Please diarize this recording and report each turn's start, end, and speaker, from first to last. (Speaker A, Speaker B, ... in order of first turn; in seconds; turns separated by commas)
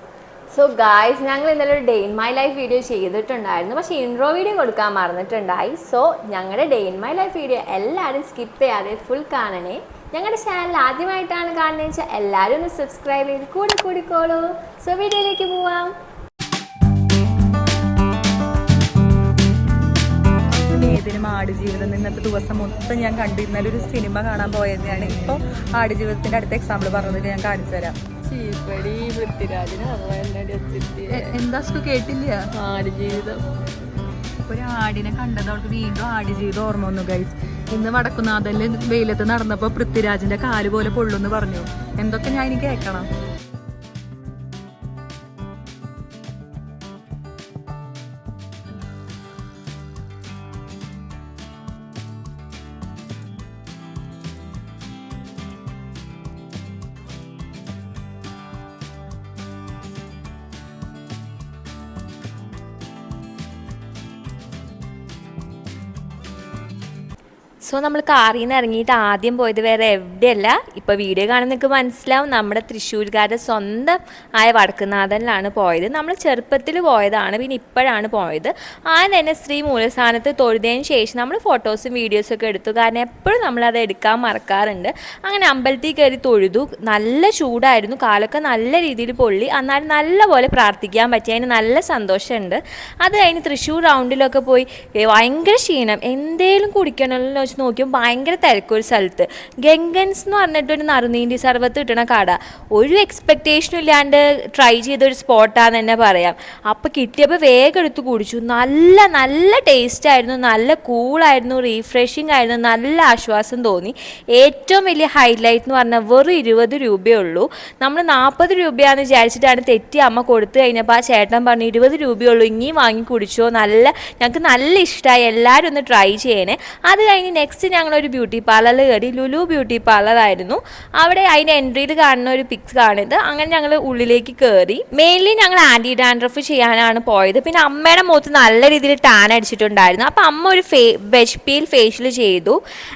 Speaker A: 0.5-15.9, Speaker B: 20.7-28.0, Speaker C: 28.3-31.4, Speaker B: 31.1-32.5, Speaker C: 32.5-33.4, Speaker B: 34.5-43.1, Speaker A: 67.6-142.6